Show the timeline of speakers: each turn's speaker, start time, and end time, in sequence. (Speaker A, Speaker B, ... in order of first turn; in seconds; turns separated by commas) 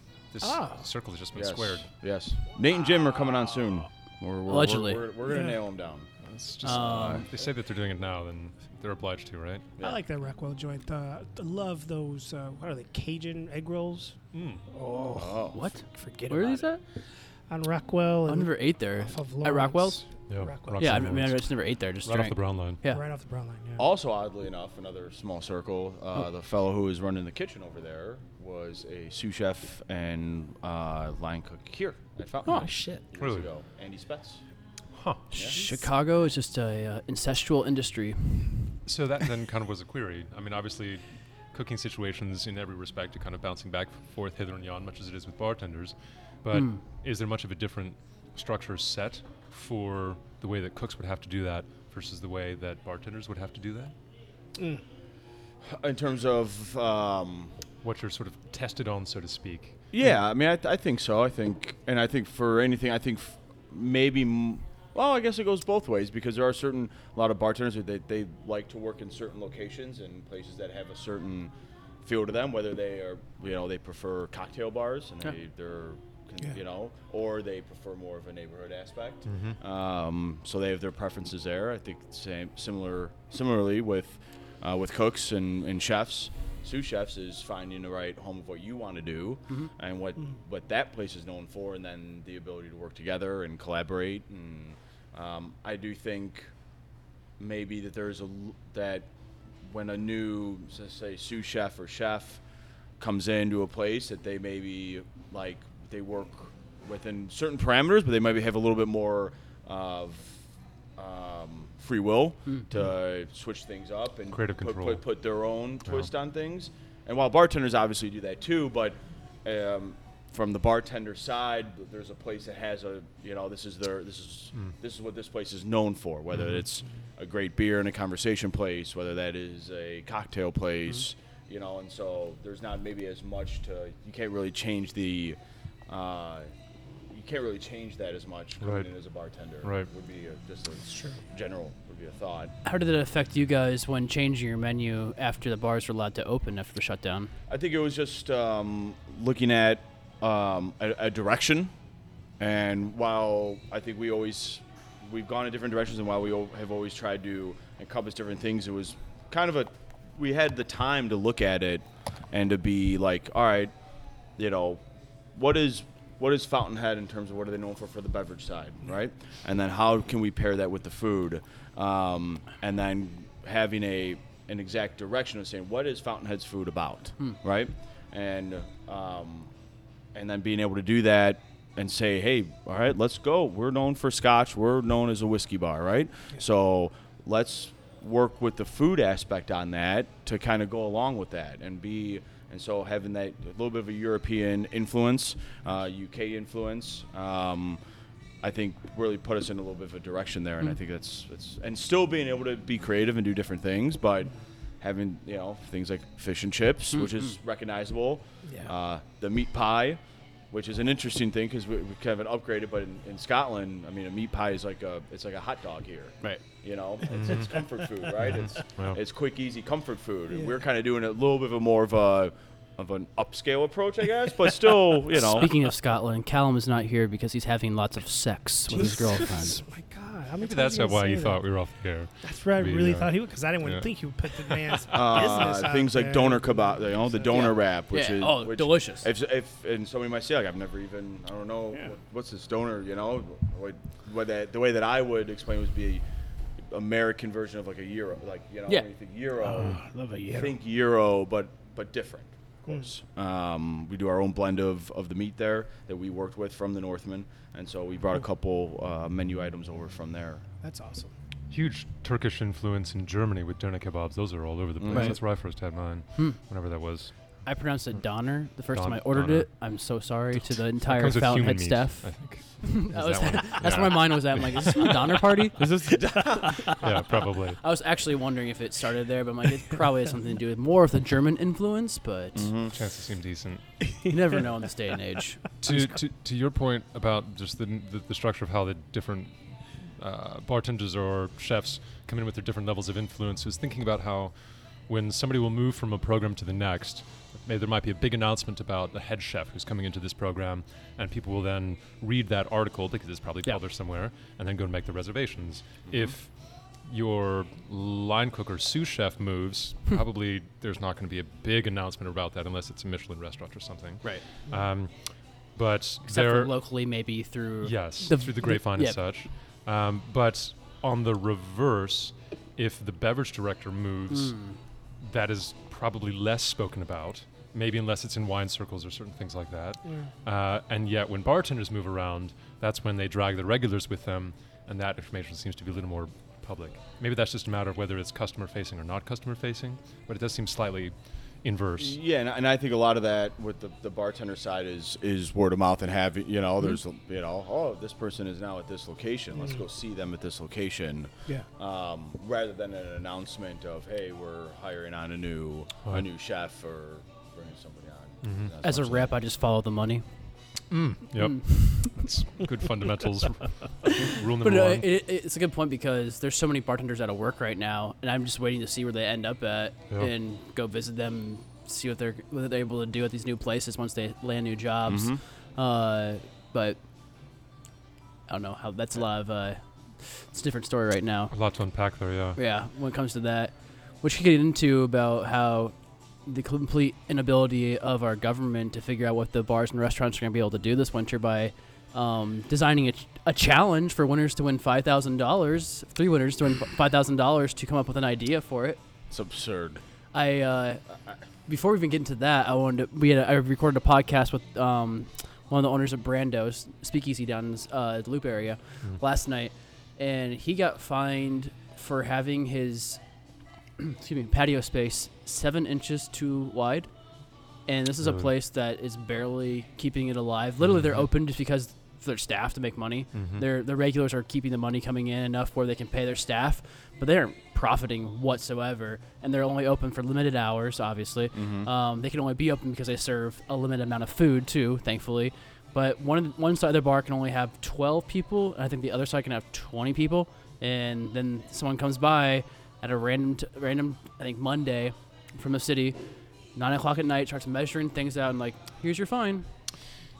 Speaker A: 0.3-1.9, Speaker B: 0.4-0.9, Speaker C: 1.3-6.1, Speaker D: 4.5-5.1, Speaker B: 5.3-5.6, Speaker A: 6.2-9.7, Speaker D: 6.6-7.3, Speaker C: 6.6-7.3, Speaker B: 9.8-14.2, Speaker A: 14.3-14.6, Speaker B: 14.7-16.9, Speaker C: 15.1-15.6, Speaker D: 15.5-16.8, Speaker B: 17.5-21.1, Speaker D: 18.3-20.1, Speaker A: 20.3-21.5, Speaker D: 20.8-23.0, Speaker A: 22.0-22.8, Speaker B: 22.8-23.9, Speaker C: 23.8-34.4, Speaker B: 32.5-33.0, Speaker A: 33.2-33.5, Speaker A: 34.9-35.2, Speaker D: 35.3-38.7, Speaker C: 35.3-35.6, Speaker A: 38.9-53.9, Speaker D: 46.5-46.8, Speaker B: 54.5-54.8, Speaker C: 55.6-57.5, Speaker A: 57.8-59.8, Speaker C: 59.9-71.5, Speaker C: 72.0-96.5, Speaker A: 79.2-79.6, Speaker C: 97.4-99.1, Speaker C: 99.6-102.4, Speaker C: 103.0-110.4, Speaker C: 111.0-136.5, Speaker A: 114.3-115.0, Speaker C: 137.1-142.5, Speaker A: 138.6-138.9, Speaker A: 139.6-139.9, Speaker B: 140.9-141.2, Speaker D: 142.6-147.3, Speaker C: 147.5-151.7, Speaker C: 152.4-163.7, Speaker C: 164.4-164.8, Speaker C: 165.3-179.5, Speaker C: 180.1-197.8, Speaker C: 198.4-210.0, Speaker D: 206.9-207.3, Speaker B: 208.4-208.7, Speaker C: 210.5-225.5, Speaker A: 217.1-217.5, Speaker B: 217.3-217.6, Speaker A: 218.2-219.0, Speaker D: 225.2-229.6, Speaker B: 228.7-231.4, Speaker A: 230.4-234.8, Speaker B: 232.2-237.3, Speaker C: 234.9-246.0, Speaker D: 237.3-239.1, Speaker C: 246.7-260.4, Speaker B: 249.4-250.5, Speaker B: 260.6-261.1, Speaker A: 261.5-267.1, Speaker C: 264.8-265.2, Speaker D: 264.9-265.2, Speaker D: 267.4-272.1, Speaker A: 268.7-269.5, Speaker A: 270.3-275.0, Speaker D: 272.6-275.7, Speaker C: 275.6-276.6, Speaker B: 276.1-276.7, Speaker A: 276.8-277.6, Speaker D: 277.6-282.5, Speaker C: 282.3-282.7, Speaker A: 282.7-284.0, Speaker D: 284.1-285.4, Speaker A: 285.6-306.3, Speaker C: 305.9-306.1, Speaker A: 306.8-315.0, Speaker A: 315.5-316.5, Speaker D: 316.0-319.0, Speaker A: 317.6-324.4, Speaker D: 324.1-324.6, Speaker A: 325.0-341.9, Speaker C: 341.8-359.2, Speaker A: 358.2-358.5, Speaker D: 358.6-360.1, Speaker A: 360.7-364.9, Speaker D: 361.2-362.0, Speaker D: 363.9-376.8, Speaker C: 374.9-375.2, Speaker D: 378.3-381.3, Speaker A: 381.3-382.4, Speaker D: 382.4-398.8, Speaker C: 399.1-399.8, Speaker D: 400.1-400.8, Speaker D: 401.4-413.0, Speaker D: 413.8-416.9, Speaker D: 417.7-446.0, Speaker A: 418.0-418.3, Speaker A: 420.6-421.0, Speaker A: 423.1-423.4, Speaker C: 431.3-431.7, Speaker D: 446.5-449.5